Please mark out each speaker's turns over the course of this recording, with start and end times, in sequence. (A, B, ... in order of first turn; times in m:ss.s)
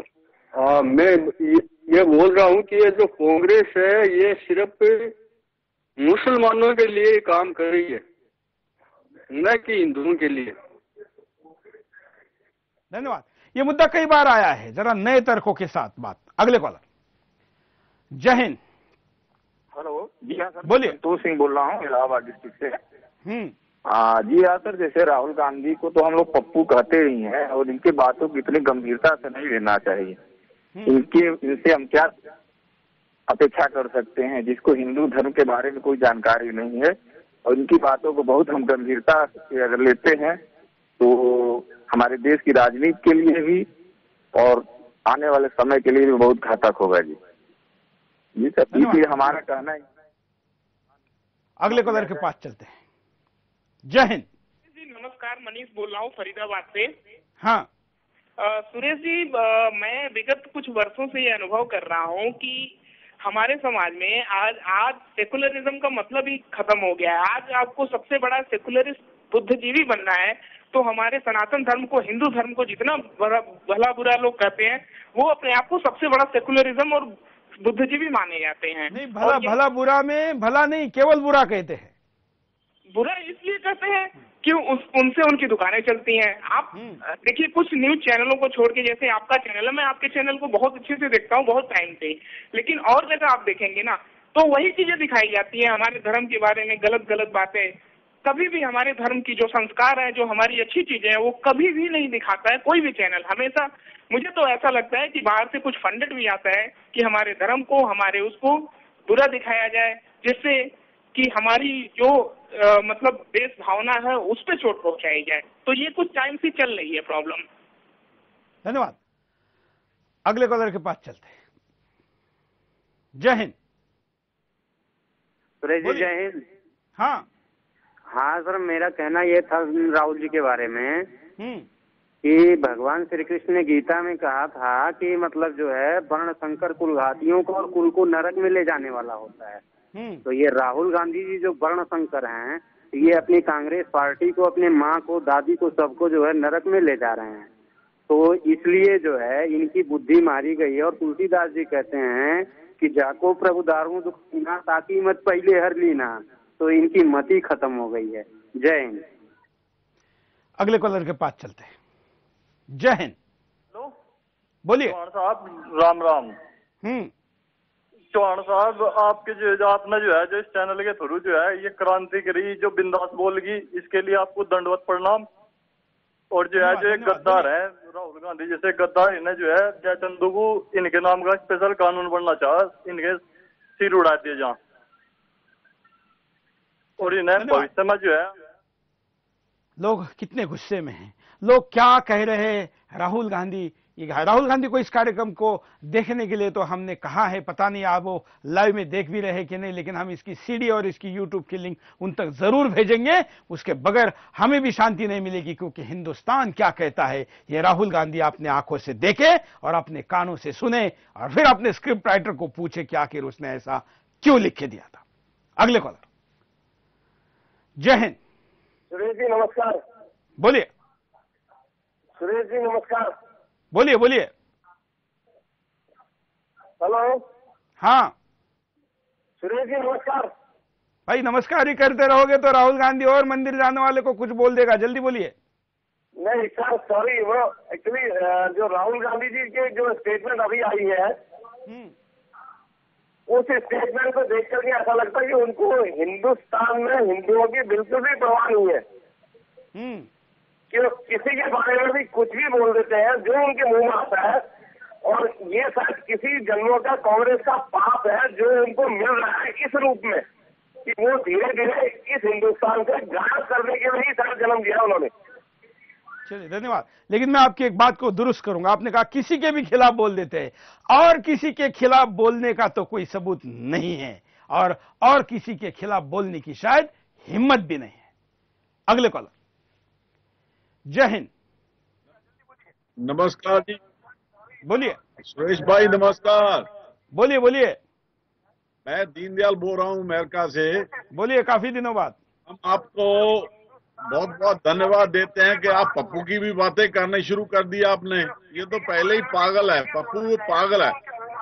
0:00.6-0:05.1 A
0:06.0-0:08.0 A
0:09.3-0:10.5 A
0:12.9-0:16.8 B
0:18.1-0:18.6 B
0:19.8-0:22.8 C
0:20.6-0:21.0 B
0:23.2-0:23.5 B
0:23.9-0:30.2 C
0:30.7-0:31.0 B
0:30.8-0:32.1 C
0:33.3-0:36.9 C
0:37.4-0:40.4 C
0:41.0-0:43.7 C
0:44.3-0:47.2 C
0:48.4-0:49.8 C
0:48.7-0:49.2 B
0:51.6-0:52.8 B
0:53.8-0:54.2 B
0:54.6-0:56.9 D
0:57.4-0:57.7 B
0:58.4-1:19.6 D
1:18.9-1:21.9 B
1:22.9-1:57.4 D
1:58.6-1:59.0 B
2:00.2-2:01.3 B
2:03.1-2:03.5 B
2:05.6-2:06.4 E
2:05.8-2:06.1 B
2:07.0-2:07.3 B
2:08.1-2:11.1 E
2:11.4-2:11.7 B
2:12.2-2:19.6 E
2:19.9-2:20.2 B
2:20.2-2:27.5 E
2:28.1-2:39.0 E
2:40.6-2:41.7 B
2:42.7-2:43.1 B
2:44.6-2:45.0 B
2:44.8-2:46.3 F
2:46.8-2:47.1 B
2:48.1-2:55.2 F
2:56.3-3:03.2 F
2:56.6-2:57.4 B
3:03.8-3:04.6 F
3:07.0-3:08.3 F
3:07.0-3:07.7 B
3:09.8-3:35.0 B
3:35.6-3:36.0 B
3:37.8-3:38.2 B
3:38.9-3:39.8 G
3:40.4-3:40.7 B
3:42.2-3:43.1 G
3:43.7-3:44.3 B
3:46.8-3:47.2 G
3:47.8-3:48.1 B
3:49.4-3:50.3 G
3:51.1-3:55.3 B
3:56.2-4:01.1 G
4:01.7-4:01.9 B
4:03.3-4:08.8 G
4:09.7-4:10.1 B
4:10.7-4:14.4 G
4:15.0-4:20.2 G
4:20.8-4:25.1 G
4:26.2-4:38.0 B
4:38.9-4:39.3 B
4:40.9-4:41.3 B
4:43.0-4:43.8 H
4:44.6-4:45.0 B
4:45.2-4:46.6 H
4:47.1-4:47.8 B
4:48.8-4:50.8 H
4:51.1-4:52.2 B
4:52.5-4:53.5 H
4:54.1-5:01.0 H